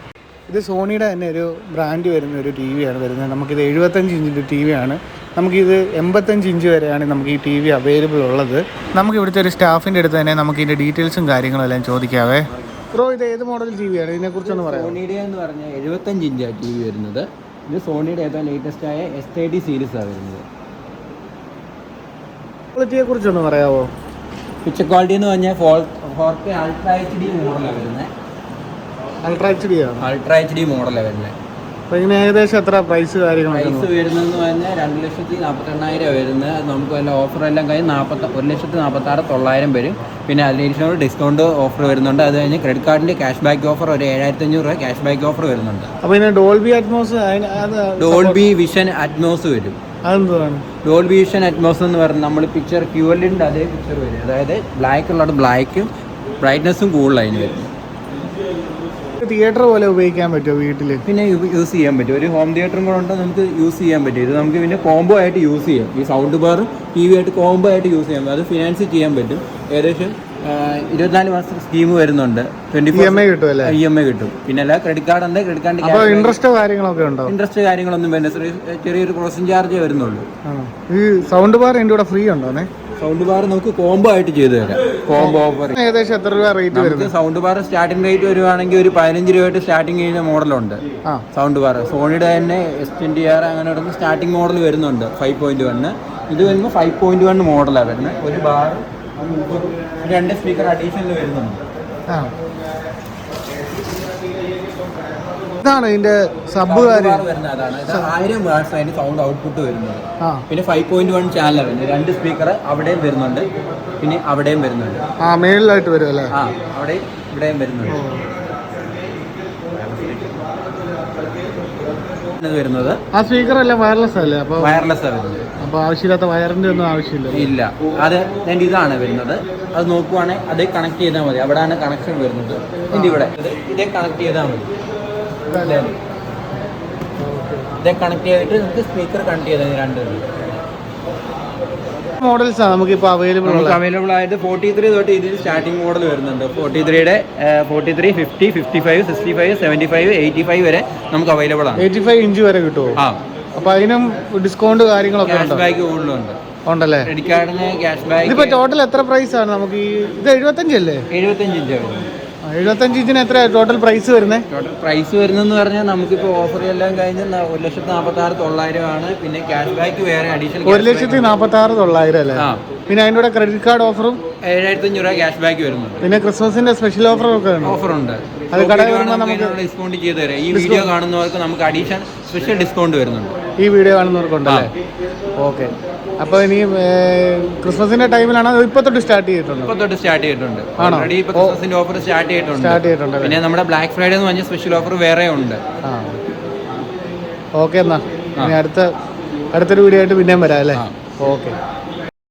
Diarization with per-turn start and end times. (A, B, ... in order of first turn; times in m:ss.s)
0:00.5-0:15.0 A
0:14.4-0:20.4 B
0:22.8-0:23.9 A
0:24.6-0:28.1 B
0:29.2-0:30.1 A
0:30.0-0:31.4 B
0:31.9-0:33.9 A
0:33.5-0:45.9 B
0:46.0-0:48.4 A
0:48.0-0:49.8 B
0:50.1-0:50.6 A
0:50.8-0:57.7 B
0:59.2-1:01.0 A
1:01.1-1:16.4 B
1:12.9-1:13.8 A
1:15.8-1:17.4 A
1:17.3-1:20.3 B
1:20.5-1:22.7 A
1:23.0-1:25.8 B
1:25.2-1:27.1 A
1:26.7-1:30.8 B
1:31.3-1:41.6 B
1:45.6-1:47.2 A
1:46.6-1:53.5 B
1:54.0-1:55.0 B
1:55.2-1:56.3 A
1:56.3-1:58.0 B
1:57.9-1:58.2 A
1:59.7-2:00.5 B
2:02.4-2:03.0 B
2:03.1-2:04.9 A
2:04.6-2:05.5 B
2:05.6-2:07.5 A
2:07.3-2:14.7 B
2:12.9-2:13.3 A
2:15.5-2:15.8 A
2:15.5-2:16.0 B
2:17.3-2:17.6 A
2:17.8-2:20.4 B
2:22.2-2:23.8 A
2:23.4-2:31.9 B
2:31.8-2:33.0 A
2:33.6-2:35.6 A
2:35.2-2:36.4 B
2:36.7-2:37.1 A
2:37.0-2:38.6 B
2:38.2-2:41.1 A
2:41.1-2:42.1 B
2:42.5-2:44.5 A
2:44.5-2:51.3 B
2:50.6-2:54.2 A
2:52.4-2:52.6 B
2:54.4-2:56.1 B
2:56.0-2:57.8 A
2:57.6-3:03.3 B
2:58.5-2:59.6 A
3:00.5-3:00.9 A
3:03.6-3:04.7 A
3:04.5-3:04.7 B
3:05.4-3:09.7 A
3:09.6-3:15.6 B
3:10.8-3:11.6 A
3:12.6-3:13.4 A
3:15.8-3:16.1 A
3:17.6-3:18.9 A
3:19.5-3:21.6 A